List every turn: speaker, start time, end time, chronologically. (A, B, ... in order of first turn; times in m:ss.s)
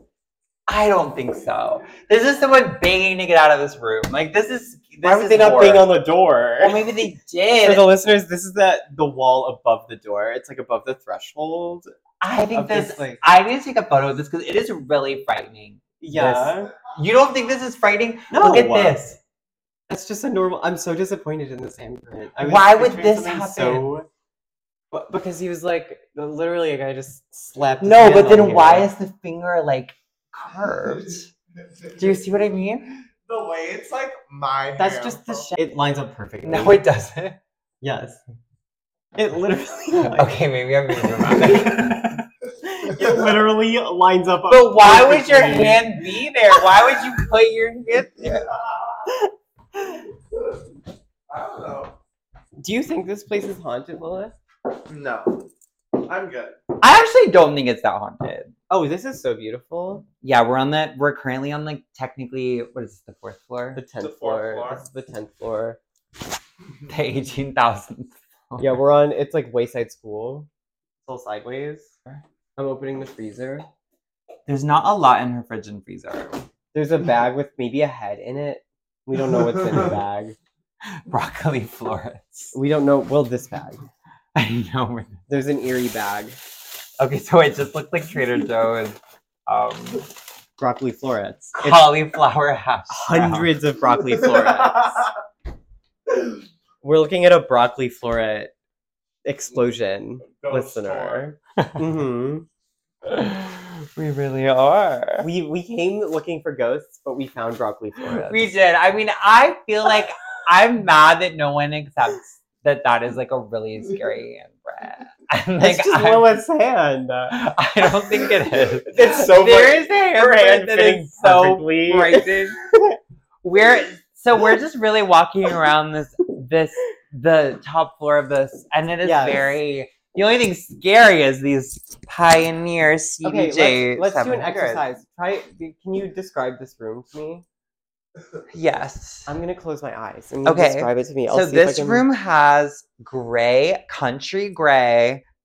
0:00.7-0:05.9 A
0:05.0-0:06.9 B
0:06.6-0:07.9 A
0:07.6-0:11.9 B
0:12.2-0:19.2 A
0:12.5-0:13.2 B
0:16.0-0:16.7 B
0:18.3-0:19.0 B
0:19.9-0:24.1 B
0:22.4-0:23.9 A
0:24.9-0:28.9 B
0:27.8-0:31.3 A
0:32.0-0:32.9 A
0:33.2-0:35.5 C
0:34.8-0:36.8 B
0:36.4-0:37.4 A
0:37.8-0:38.2 B
0:39.2-0:40.4 B
0:40.0-0:42.3 A
0:40.9-0:42.0 B
0:42.6-0:46.0 B
0:44.5-0:48.5 A
0:48.6-0:49.1 C
0:51.3-0:51.9 C
0:52.6-0:54.3 B
0:54.9-0:55.4 C
0:56.0-0:56.6 C
0:56.8-0:58.5 A
0:58.7-1:00.0 B
1:00.2-1:03.8 A
1:03.7-1:05.8 B
1:04.0-1:04.8 C
1:06.9-1:08.8 A
1:08.6-1:10.5 B
1:11.0-1:11.9 B
1:12.6-1:13.7 B
1:14.5-1:16.4 A
1:16.7-1:20.4 B
1:19.4-1:19.7 C
1:21.1-1:22.6 A
1:22.5-1:23.9 B
1:24.3-1:25.2 A
1:25.3-1:26.4 B
1:27.0-1:30.0 A
1:30.6-1:31.9 B
1:31.5-1:33.5 A
1:32.9-1:35.1 B
1:34.2-1:34.8 C
1:36.8-1:38.5 B
1:39.2-1:42.4 B
1:40.4-1:41.3 C
1:43.0-1:45.3 A
1:45.2-1:48.5 B
1:48.1-1:56.4 A
1:55.6-1:57.4 B
1:57.3-2:02.6 A
1:58.6-2:02.9 B
2:03.4-2:14.8 A
2:09.0-2:09.6 B
2:13.2-2:17.4 B
2:18.5-2:19.3 A
2:19.3-2:22.0 B
2:20.4-2:25.2 A